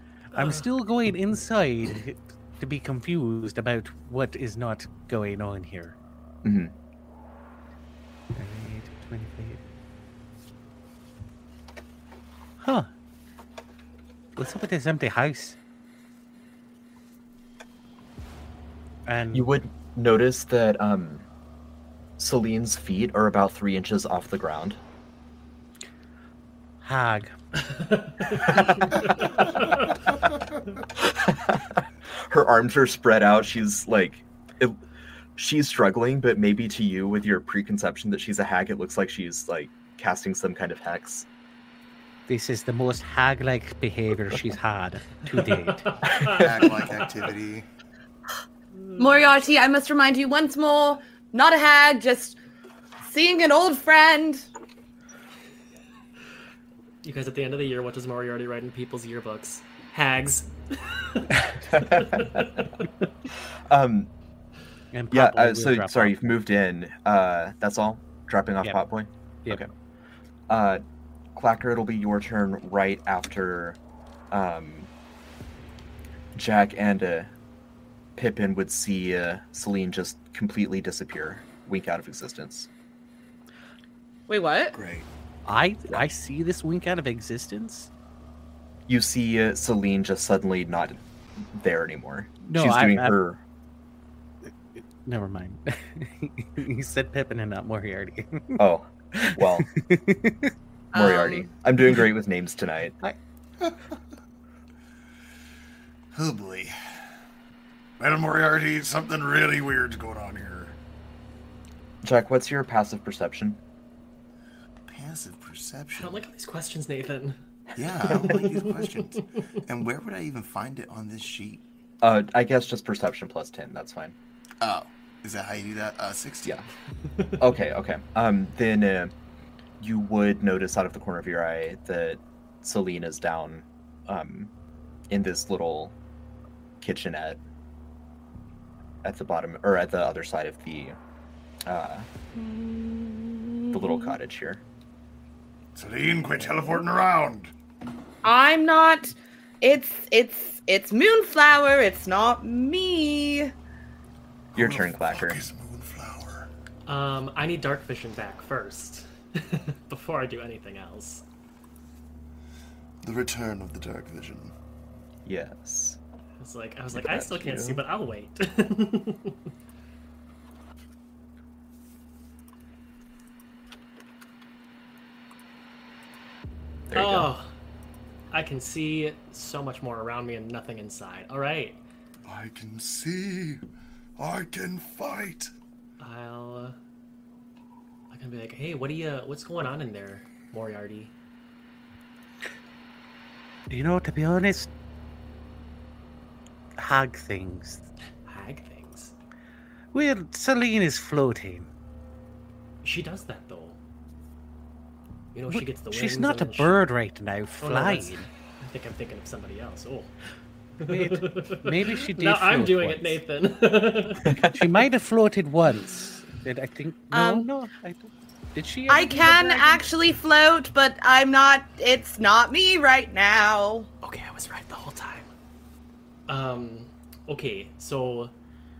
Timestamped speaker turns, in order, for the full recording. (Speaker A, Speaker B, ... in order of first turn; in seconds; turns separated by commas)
Speaker A: 0.3-0.6, Speaker B: 0.3-6.0, Speaker C: 6.4-6.7, Speaker B: 8.3-9.6, Speaker B: 12.6-12.9, Speaker B: 14.3-15.6, Speaker B: 19.1-19.5, Speaker C: 19.3-21.2, Speaker C: 22.2-24.8, Speaker B: 26.8-27.3, Speaker A: 27.7-30.0, Speaker B: 28.3-29.5, Speaker C: 30.9-34.8, Speaker C: 35.4-41.3, Speaker B: 42.3-46.0, Speaker A: 45.8-47.1, Speaker C: 46.2-46.5, Speaker D: 46.2-47.7, Speaker A: 48.8-49.3, Speaker E: 49.0-52.4, Speaker E: 53.0-54.5, Speaker A: 57.0-62.7, Speaker C: 61.7-62.4, Speaker C: 63.7-64.1, Speaker B: 64.9-66.4, Speaker C: 65.1-69.7, Speaker C: 70.5-70.8, Speaker C: 71.3-73.8, Speaker C: 74.3-74.9, Speaker C: 76.3-77.3, Speaker C: 78.2-82.7, Speaker E: 84.3-84.8, Speaker D: 84.7-85.1, Speaker B: 85.5-87.9, Speaker C: 88.9-93.4, Speaker B: 92.4-93.2, Speaker B: 94.8-98.6, Speaker C: 98.6-99.7, Speaker B: 99.2-100.5, Speaker E: 100.9-101.5, Speaker C: 100.9-102.9, Speaker D: 106.1-106.8, Speaker F: 108.0-110.8, Speaker C: 112.0-113.6, Speaker D: 114.9-116.2, Speaker A: 116.0-117.4, Speaker D: 117.8-121.6, Speaker A: 118.0-119.1, Speaker C: 122.0-124.1, Speaker D: 124.6-126.6, Speaker C: 127.4-129.1, Speaker C: 129.8-134.5, Speaker C: 135.1-135.9, Speaker C: 136.8-137.4, Speaker C: 139.0-140.9, Speaker C: 141.7-142.1, Speaker E: 142.3-144.2, Speaker C: 143.7-144.6, Speaker F: 145.7-147.5, Speaker E: 148.2-153.5, Speaker C: 154.5-155.4, Speaker F: 154.5-156.5, Speaker A: 156.8-161.2, Speaker D: 163.0-164.5, Speaker C: 165.2-166.0, Speaker A: 166.4-169.4, Speaker C: 166.9-167.8, Speaker C: 176.9-177.3, Speaker A: 176.9-177.5, Speaker A: 178.3-181.8, Speaker D: 182.2-183.6, Speaker D: 184.2-185.5, Speaker A: 186.0-186.8, Speaker A: 188.1-191.1, Speaker B: 193.7-194.7, Speaker B: 196.8-197.8, Speaker A: 198.2-199.1, Speaker B: 199.9-201.7, Speaker A: 202.8-203.8, Speaker A: 205.3-206.9, Speaker B: 205.5-208.3, Speaker A: 207.6-210.1, Speaker A: 210.8-214.4, Speaker B: 210.8-213.2, Speaker B: 214.3-219.8, Speaker C: 214.3-214.6, Speaker E: 217.1-217.5, Speaker E: 218.9-223.9, Speaker A: 224.0-225.3, Speaker A: 226.3-228.3